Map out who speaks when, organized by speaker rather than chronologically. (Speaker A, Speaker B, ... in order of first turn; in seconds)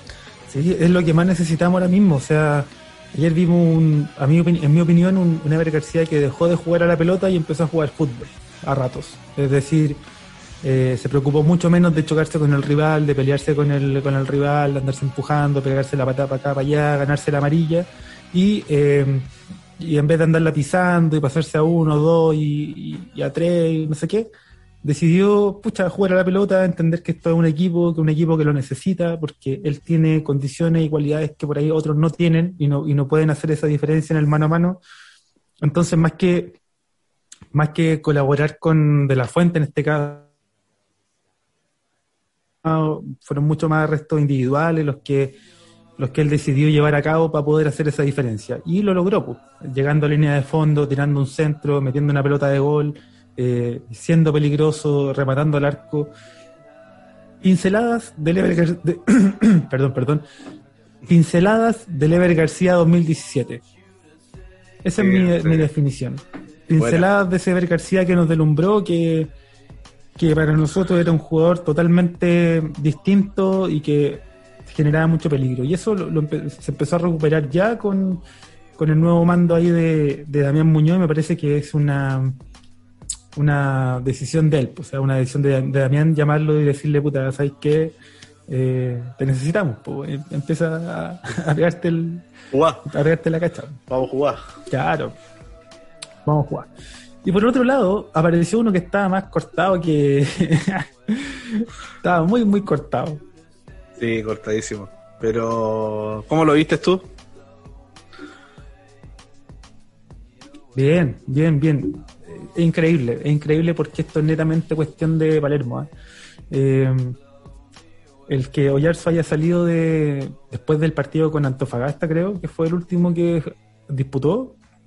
Speaker A: 0.5-10.0, 10.6-24.3, 24.8-34.8, 35.6-36.6, 37.5-40.3, 42.6-45.4, 46.0-56.1, 57.4-60.3, 61.1-63.6, 64.8-69.3, 70.2-78.2, 78.8-82.4, 83.3-88.0, 88.5-92.3, 92.9-93.8, 94.7-95.2, 96.2-96.7, 97.2-103.2, 110.8-115.9, 116.5-117.2, 118.3-124.6
Speaker B: 65.0-65.7, 66.8-67.1, 92.5-92.8, 93.9-94.4, 104.0-107.1